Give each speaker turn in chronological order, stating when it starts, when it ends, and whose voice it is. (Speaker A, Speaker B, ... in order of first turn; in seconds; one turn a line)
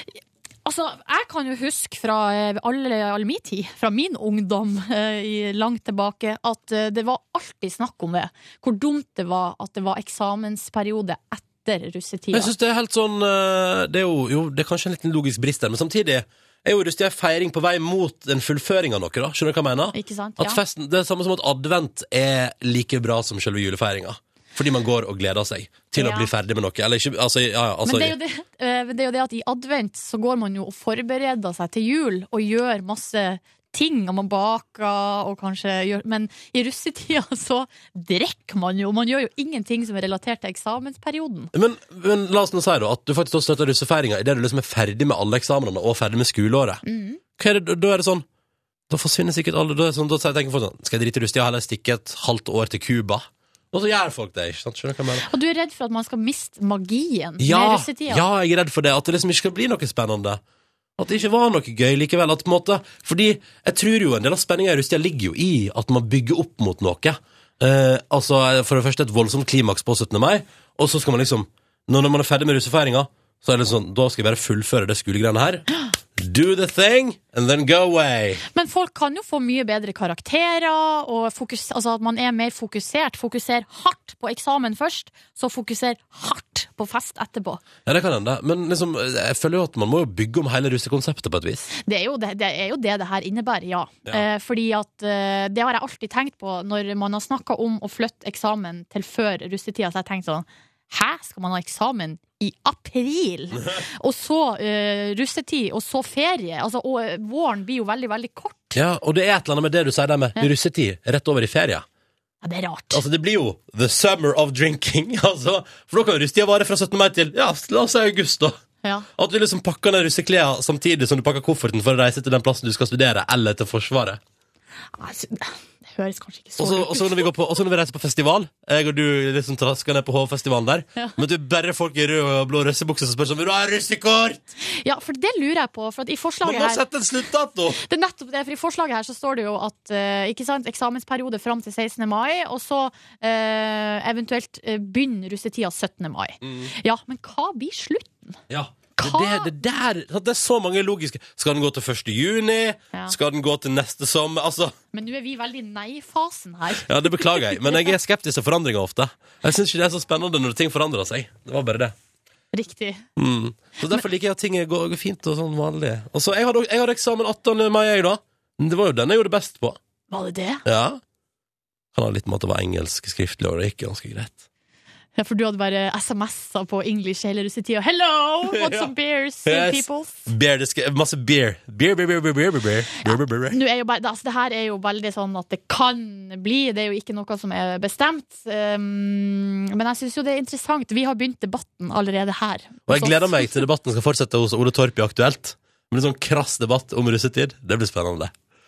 Speaker A: 0.7-12.5
Speaker B: 12.3-28.1
Speaker A: 19.9-20.6
Speaker A: 25.9-26.3
Speaker A: 27.9-41.5
Speaker B: 41.5-46.8
Speaker A: 46.9-47.2
Speaker B: 47.4-48.2
Speaker B: 48.9-55.3
Speaker A: 55.3-58.2
Speaker B: 57.4-60.4
Speaker B: 61.0-78.4
Speaker A: 78.5-87.6
Speaker B: 87.9-91.7
Speaker A: 91.8-108.8
Speaker B: 108.7-111.9
Speaker A: 112.4-113.0
Speaker B: 112.9-118.6
Speaker B: 119.2-124.2
Speaker A: 125.0-127.3
Speaker B: 126.6-134.5
Speaker A: 134.8-136.8
Speaker B: 136.4-137.8
Speaker A: 137.8-148.4
Speaker B: 146.4-146.7
Speaker B: 148.5-154.8
Speaker A: 149.0-149.5
Speaker A: 154.9-157.6
Speaker B: 156.8-161.9
Speaker A: 162.5-163.0
Speaker B: 163.2-169.8
Speaker A: 170.1-170.6
Speaker B: 170.7-171.0
Speaker B: 171.9-174.4
Speaker A: 175.2-180.3
Speaker B: 178.5-178.9
Speaker B: 179.5-183.6
Speaker A: 183.1-193.6
Speaker B: 192.9-198.3